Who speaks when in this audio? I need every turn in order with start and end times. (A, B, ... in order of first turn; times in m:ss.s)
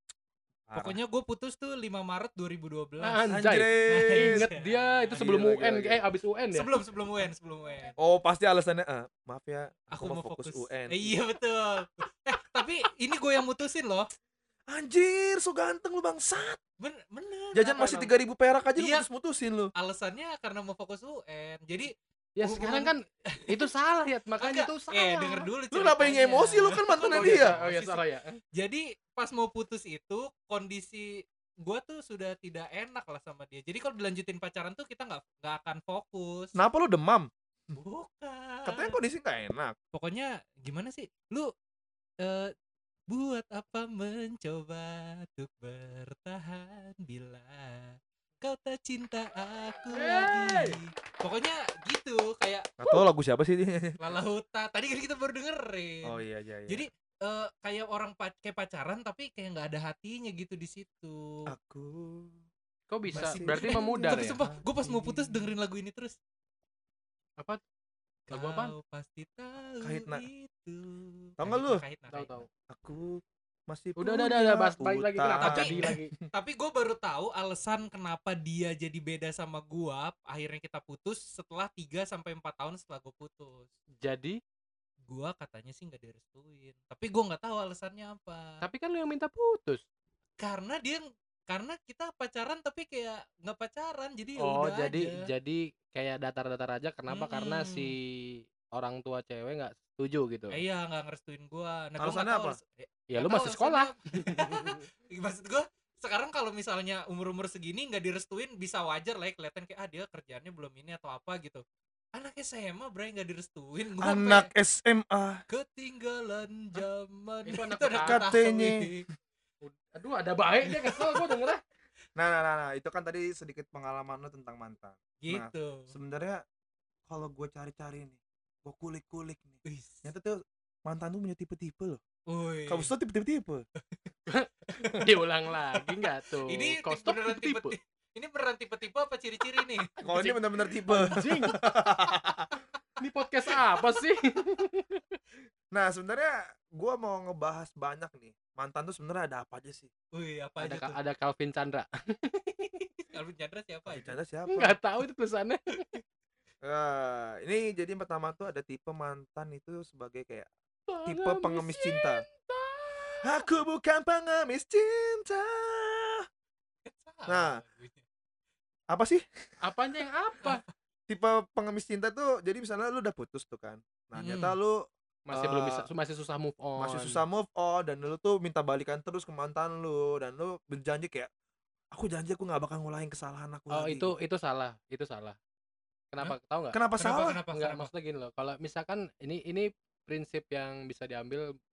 0:00.7-0:01.0 A
0:00.7-0:03.3 B
0:03.0-0:06.7 C
0:03.3-0:04.5 A
0:03.8-0:05.2 B
0:05.2-0:06.0 A
0:06.5-0:07.9 B
0:08.0-0:11.1 A
0:09.9-0:14.1 B
0:14.7-0:16.6 A
0:16.8-0:18.1 B
0:17.5-0:19.7 A
0:18.8-0:19.0 B
0:19.8-0:23.7 B
0:22.4-0:25.5 C
0:24.4-0:36.6 B
0:25.7-0:27.6 A
0:27.1-0:28.4 C
0:36.6-0:37.3 A
0:37.7-0:39.0 B
0:38.6-0:39.7 A
0:39.9-0:41.5 B
0:42.2-0:42.5 B
0:43.1-0:52.7 B
0:49.9-0:50.8 C
0:52.8-0:54.0 A
0:54.0-1:01.5 B
0:56.0-0:56.9 A
1:01.5-1:02.4 A
1:02.9-1:05.4 C
1:03.1-1:04.6 A
1:03.1-1:06.2 B
1:08.3-1:12.4 B
1:08.3-1:08.7 C
1:09.8-1:10.2 A
1:11.4-1:11.8 A
1:12.1-1:12.5 C
1:12.7-1:16.3 A
1:14.0-1:16.1 C
1:15.4-1:23.7 B
1:24.0-1:24.4 C
1:25.1-1:28.6 B
1:28.6-1:29.8 C
1:30.4-1:35.2 B
1:34.4-1:40.6 C
1:37.1-1:37.9 B
1:40.5-1:51.6 B
1:42.0-1:42.6 A
1:43.1-1:44.8 C
1:52.1-1:54.5 B
1:54.0-1:55.4 A
1:55.5-1:59.1 B
1:57.4-1:58.3 C
1:58.0-1:58.9 A
1:59.6-2:01.6 C
2:00.7-2:01.2 B
2:02.2-2:06.4 A
2:05.2-2:05.9 B
2:07.1-2:12.0 A
2:09.6-2:10.0 B
2:12.3-2:12.9 B
2:12.7-2:13.6 A
2:14.3-2:17.7 C
2:16.4-2:20.4 B
2:20.0-2:22.5 A
2:20.9-2:21.6 C
2:23.0-2:25.0 C
2:25.7-2:29.9 A
2:30.1-2:31.0 B
2:30.6-2:32.7 C
2:33.0-2:34.1 B
2:33.9-2:34.8 A
2:34.5-2:35.8 C
2:36.6-2:40.5 A
2:40.9-2:43.4 C
2:41.0-2:42.2 A
2:43.2-2:46.2 A
2:46.8-2:48.0 B
2:47.3-2:47.6 A
2:48.9-2:49.2 A
2:49.6-2:50.6 C
2:51.1-2:55.9 A
2:54.1-2:54.6 B
2:55.3-2:57.2 C
2:56.8-3:01.3 A
3:01.9-3:04.1 A
3:03.7-3:05.4 C
3:06.1-3:06.8 C
3:06.7-3:07.4 A
3:07.0-3:07.9 B
3:07.5-3:11.4 C